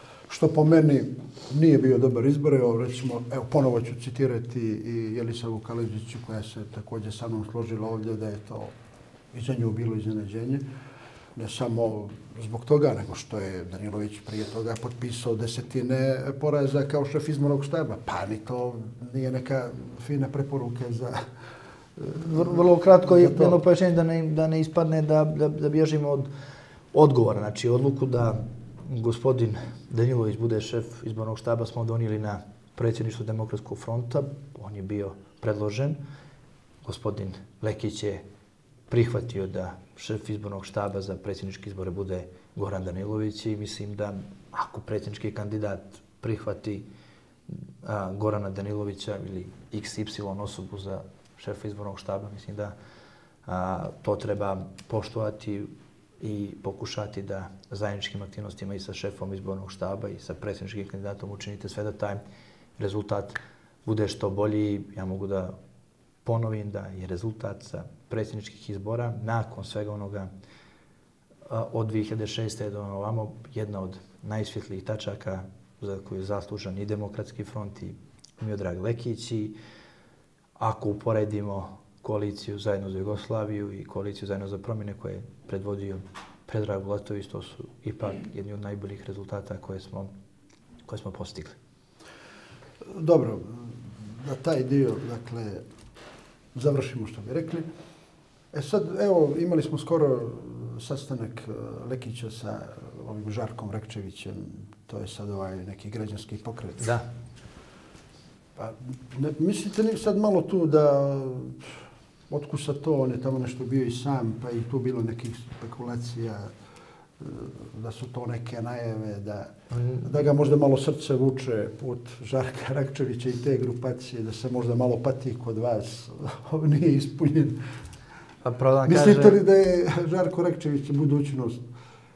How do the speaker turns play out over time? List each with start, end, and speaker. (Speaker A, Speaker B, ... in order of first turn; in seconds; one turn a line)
Speaker A: 0.3-8.8
Speaker A: 9.3-10.6
Speaker A: 11.4-21.2
Speaker A: 22.0-23.6
Speaker B: 22.2-26.3
Speaker B: 26.9-36.0
Speaker B: 36.8-38.2
Speaker B: 38.9-46.9
Speaker B: 47.5-52.7
Speaker B: 53.5-62.2
Speaker B: 62.8-65.5
Speaker B: 66.2-70.3
Speaker B: 71.5-79.5
Speaker B: 80.6-90.1
Speaker B: 90.9-91.6
Speaker A: 92.8-95.6
Speaker A: 96.5-97.7
Speaker A: 98.5-106.9
Speaker B: 106.8-107.1
Speaker A: 108.6-116.5
Speaker A: 117.2-119.5
Speaker B: 119.7-120.1
Speaker A: 120.0-127.6
Speaker B: 128.4-129.4
Speaker A: 128.8-131.6